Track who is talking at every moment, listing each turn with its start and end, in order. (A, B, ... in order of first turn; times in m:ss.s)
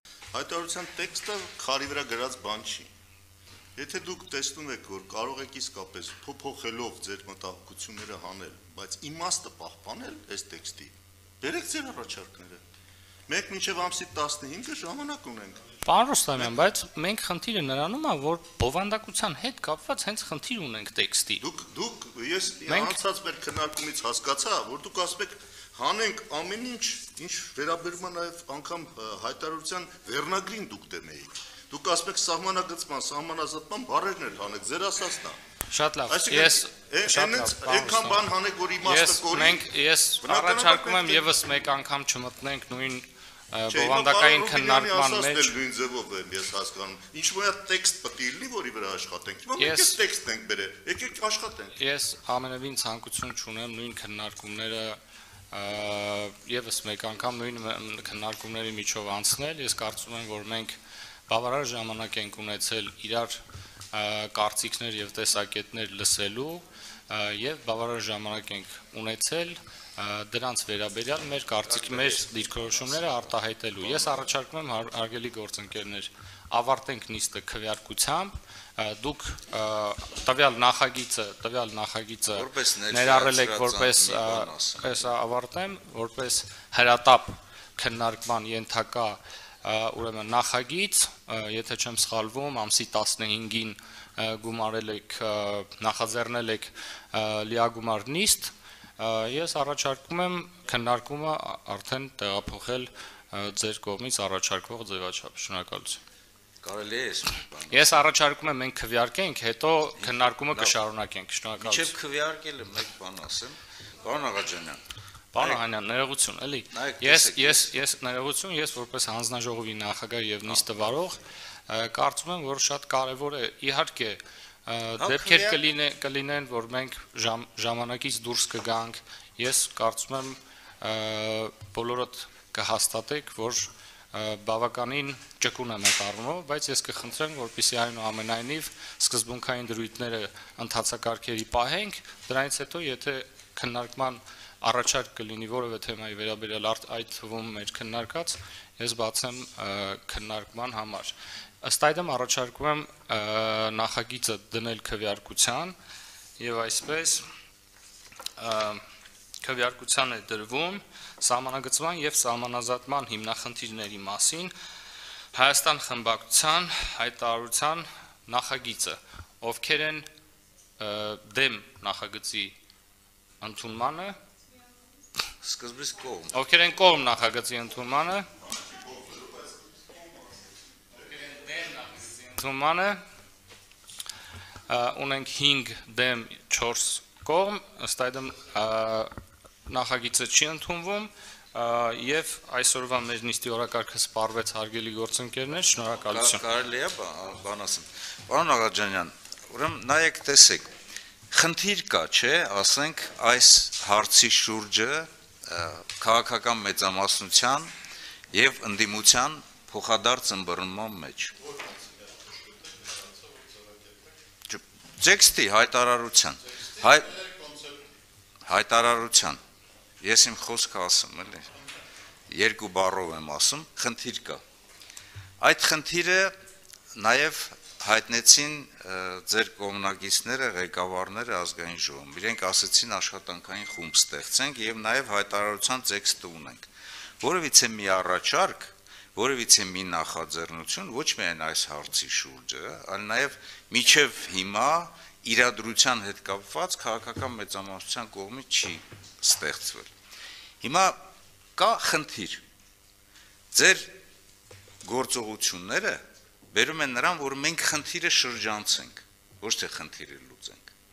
0:00.3-0:02.9 A
0:03.8-0:12.6 A
0:13.3-0:15.6 A
0:15.8-0:21.4 B
0:21.4-0:35.4 A
0:22.7-0:23.0 B
0:35.7-0:38.3 B
0:36.1-0:39.6 A
0:38.8-0:45.6 B
0:40.2-0:41.2 A
0:43.7-0:51.7 A
0:49.6-0:50.0 B
0:51.8-0:55.0 B
0:55.5-1:00.8 B
1:01.3-1:03.4 B
1:03.9-1:46.0 B
1:11.7-1:13.0 C
1:13.8-1:14.3 C
1:22.3-1:25.1 C
1:46.6-1:48.0 C
1:47.7-1:51.9 B
1:50.0-1:50.8 C
1:51.6-1:54.8 C
1:55.3-2:35.8 B
1:55.4-1:55.6 C
1:56.7-1:57.7 C
2:05.0-2:05.6 C
2:36.4-2:37.2 B
2:38.4-2:38.8 B
2:39.4-2:44.5 B
2:45.3-2:50.0 B
2:50.8-2:52.6 B
2:53.4-2:54.2 B
2:55.4-2:56.4 C
2:56.3-2:58.3 B
2:58.6-3:00.4 A
3:01.0-3:03.0 B
3:04.7-3:09.1 B
3:09.6-3:16.4 B
3:16.1-3:20.7 C
3:21.3-3:27.7 C
3:28.3-3:31.3 C
3:34.5-3:37.2 C
3:38.4-3:39.4 C
3:40.0-3:41.4 C
3:42.3-3:44.4 C
3:45.4-3:46.3 C
3:47.0-3:56.6 C
3:57.2-4:09.9 C
4:10.6-4:11.0 C
4:11.6-4:12.4 C
4:13.5-4:13.9 C
4:14.8-4:16.0 C
4:16.5-4:20.7 C